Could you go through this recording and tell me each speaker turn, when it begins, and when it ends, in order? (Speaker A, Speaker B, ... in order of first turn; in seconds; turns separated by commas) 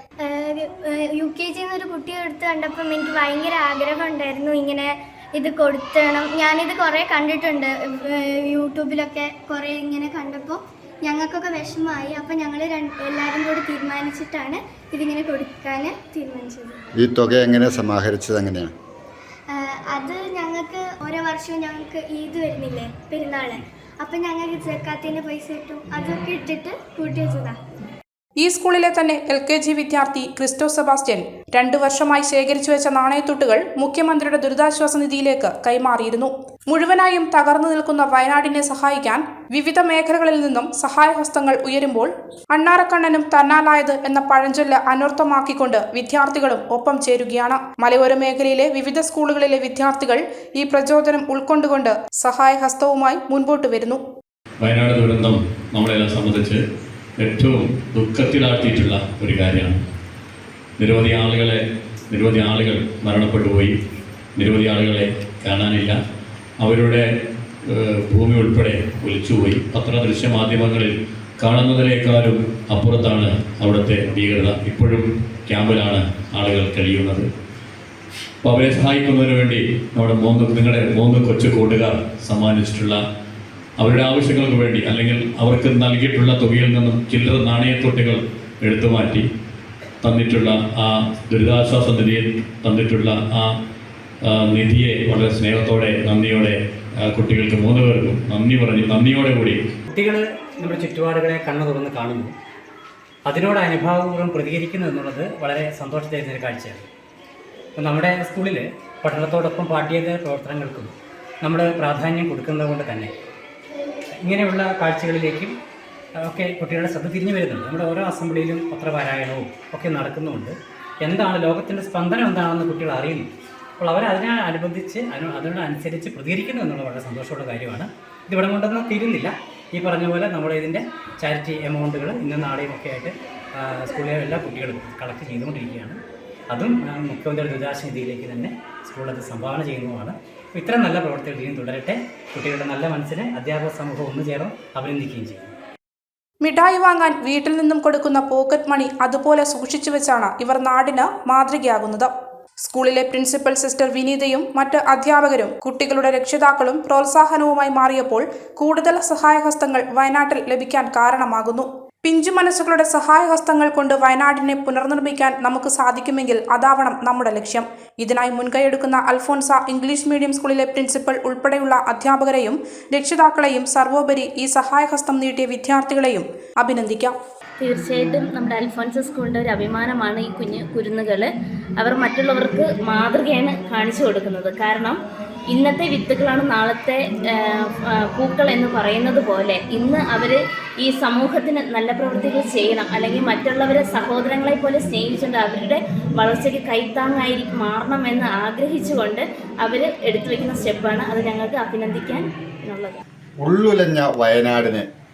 Speaker A: 0.2-16.8, Speaker B: 17.0-18.7, Speaker A: 19.5-27.6, Speaker C: 28.4-54.0, Speaker D: 54.6-56.6, Speaker D: 57.2-59.8, Speaker D: 60.8-63.8, Speaker D: 64.4-66.0, Speaker D: 66.6-67.0, Speaker D: 67.7-77.3, Speaker D: 78.4-83.0, Speaker D: 83.8-89.3, Speaker D: 90.0-93.5, Speaker D: 94.2-99.6, Speaker E: 99.9-102.3, Speaker E: 103.3-106.9, Speaker E: 107.8-113.1, Speaker E: 114.2-115.5, Speaker E: 116.2-136.0, Speaker E: 136.5-145.5, Speaker C: 146.4-152.1, Speaker C: 152.6-177.2, Speaker F: 177.6-203.0, Speaker B: 203.4-204.9